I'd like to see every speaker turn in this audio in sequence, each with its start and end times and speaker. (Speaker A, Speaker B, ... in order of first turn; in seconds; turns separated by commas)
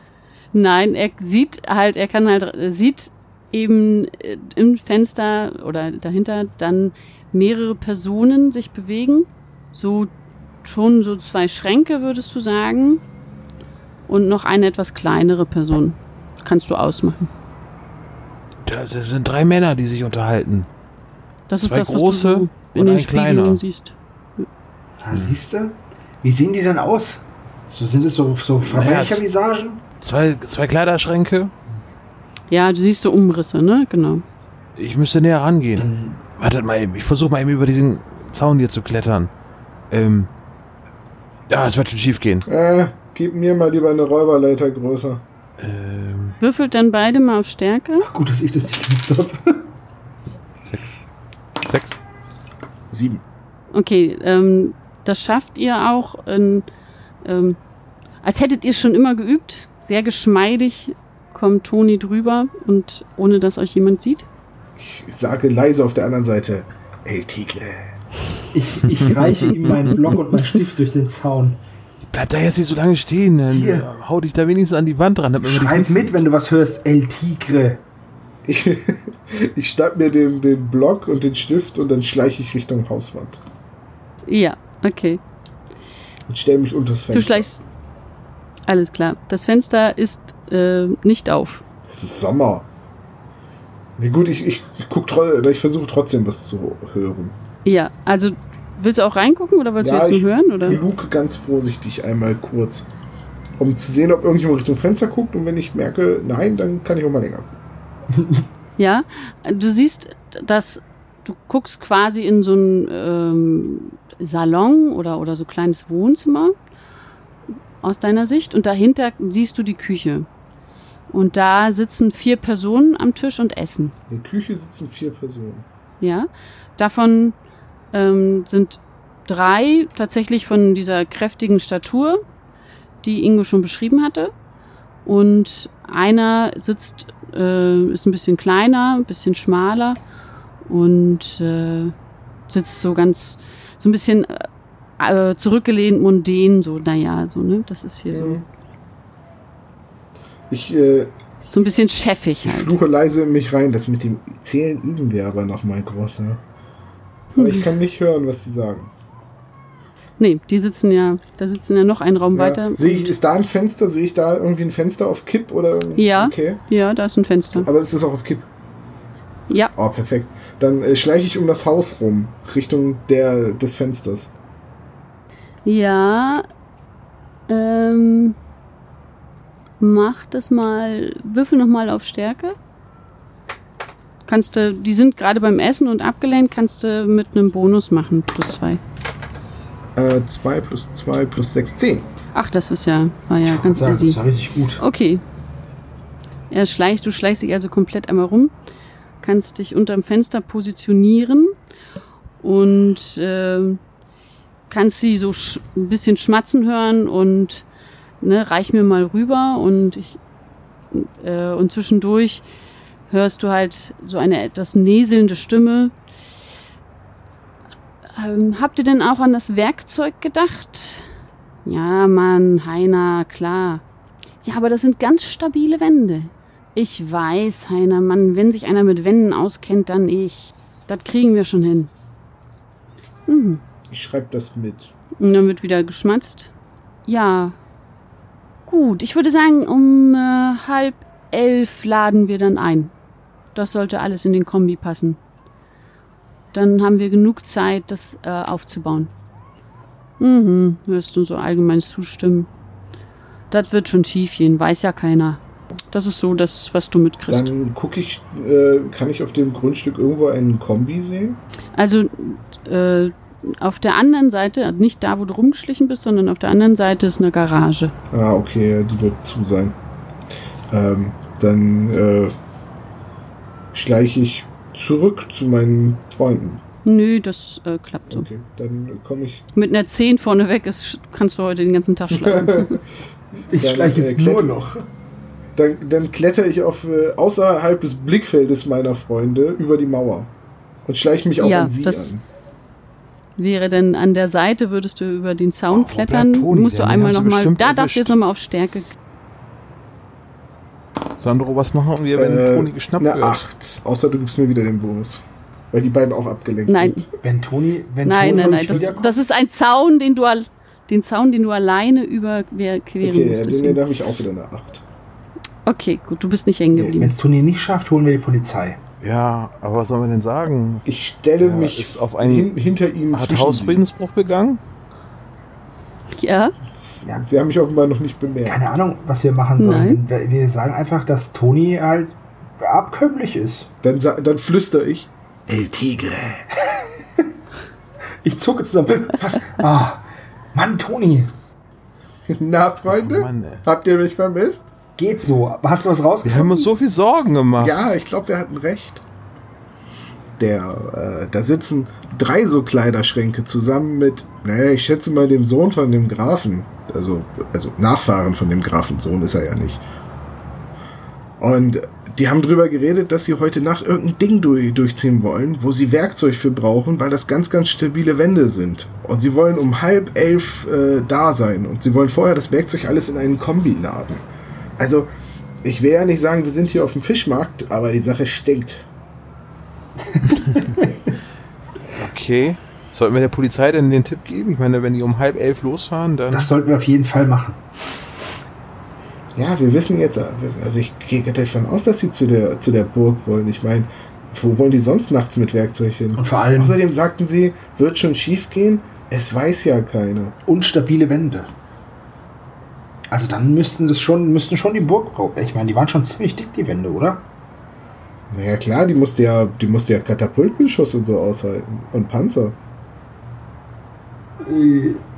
Speaker A: 0.5-10.1, Speaker A: 10.6-13.0, Speaker A: 14.1-17.3, Speaker B: 18.7-20.7, Speaker A: 21.5-24.5, Speaker B: 21.6-23.6, Speaker C: 25.0-29.8, Speaker B: 28.6-29.2, Speaker B: 30.0-31.5, Speaker A: 32.5-34.2, Speaker B: 34.8-35.9, Speaker C: 35.8-36.2, Speaker B: 36.4-39.3, Speaker B: 39.9-40.3, Speaker B: 41.5-42.5, Speaker D: 42.5-45.2, Speaker B: 45.6-46.4, Speaker A: 46.4-48.1, Speaker C: 48.0-49.7, Speaker B: 50.7-51.0, Speaker B: 51.6-52.0, Speaker D: 52.9-53.2, Speaker A: 53.7-56.7, Speaker A: 57.2-57.6, Speaker A: 58.2-64.3, Speaker D: 64.8-68.0, Speaker C: 68.5-71.6, Speaker B: 69.5-70.0, Speaker B: 72.0-76.2, Speaker C: 73.5-73.9, Speaker C: 75.4-77.8, Speaker D: 78.5-83.4, Speaker A: 84.3-85.2, Speaker D: 86.3-87.5, Speaker A: 87.1-87.6, Speaker A: 88.7-91.6, Speaker D: 91.9-92.7, Speaker D: 94.0-97.3, Speaker A: 97.7-100.8, Speaker D: 99.8-102.9, Speaker D: 103.6-107.5, Speaker A: 108.8-116.5, Speaker A: 117.8-120.3, Speaker A: 121.1-123.9, Speaker D: 124.1-125.7, Speaker A: 126.0-127.4, Speaker A: 127.9-132.2, Speaker A: 133.0-134.3, Speaker A: 135.1-140.0, Speaker A: 140.7-141.9, Speaker A: 142.5-144.5, Speaker A: 145.0-148.4, Speaker D: 148.1-148.4, Speaker D: 150.5-151.1, Speaker A: 151.5-152.8, Speaker D: 152.4-156.4, Speaker A: 157.3-157.7, Speaker D: 157.4-158.9, Speaker A: 160.2-163.1, Speaker D: 162.3-166.6, Speaker A: 166.0-167.7, Speaker D: 167.5-168.5, Speaker D: 169.8-174.3, Speaker A: 175.7-176.5, Speaker A: 177.5-178.4, Speaker A: 179.8-182.6, Speaker A: 184.3-188.8, Speaker D: 190.0-192.1, Speaker A: 192.3-194.2, Speaker C: 193.4-194.8, Speaker A: 194.8-195.2, Speaker A: 196.5-198.5, Speaker A: 199.2-201.5, Speaker A: 202.4-203.8, Speaker A: 204.7-207.7, Speaker A: 208.2-210.2, Speaker A: 210.9-212.4, Speaker A: 213.1-215.9, Speaker A: 218.2-221.1, Speaker A: 221.7-223.8, Speaker A: 224.4-231.9, Speaker A: 233.3-233.6, Speaker D: 233.9-234.9, Speaker A: 235.2-236.5, Speaker A: 237.1-237.6, Speaker A: 238.7-242.9, Speaker A: 243.5-245.2, Speaker A: 246.5-249.1, Speaker A: 250.2-252.5, Speaker A: 253.5-255.4, Speaker A: 255.9-257.5, Speaker D: 257.3-261.4, Speaker A: 261.8-267.9, Speaker D: 268.1-269.8, Speaker D: 270.7-272.3, Speaker D: 273.7-276.6, Speaker A: 276.9-278.3, Speaker D: 278.1-279.4, Speaker A: 279.6-282.8, Speaker D: 282.1-282.8, Speaker C: 283.5-284.9, Speaker D: 283.6-284.5, Speaker D: 285.6-290.3, Speaker D: 290.9-292.2, Speaker A: 291.4-292.1, Speaker A: 293.4-298.9, Speaker B: 295.7-298.1, Speaker B: 301.2-303.4, Speaker D: 302.1-305.2, Speaker D: 305.7-307.1, Speaker A: 306.7-307.0, Speaker C: 307.2-309.1, Speaker A: 308.0-313.8, Speaker D: 308.3-308.9, Speaker D: 313.0-314.8, Speaker A: 315.7-317.1, Speaker C: 317.0-318.8, Speaker B: 319.0-320.9, Speaker D: 320.9-323.8, Speaker B: 321.4-322.5, Speaker B: 323.1-324.6, Speaker A: 326.1-326.5, Speaker D: 327.1-328.6, Speaker C: 328.4-333.7, Speaker A: 329.6-330.0, Speaker D: 333.8-335.1, Speaker C: 335.5-337.3, Speaker C: 338.2-341.3, Speaker D: 342.3-344.7, Speaker B: 342.9-343.6, Speaker C: 345.0-346.7, Speaker B: 346.2-347.8, Speaker D: 347.6-349.0, Speaker D: 350.4-359.8, Speaker D: 361.4-374.2, Speaker D: 374.8-375.1, Speaker D: 375.6-378.9, Speaker C: 380.1-381.0, Speaker B: 381.9-386.5, Speaker C: 386.3-387.6, Speaker D: 389.4-400.4, Speaker C: 396.2-396.8, Speaker C: 400.5-401.5, Speaker C: 403.1-407.2, Speaker D: 408.3-412.6, Speaker C: 414.4-415.0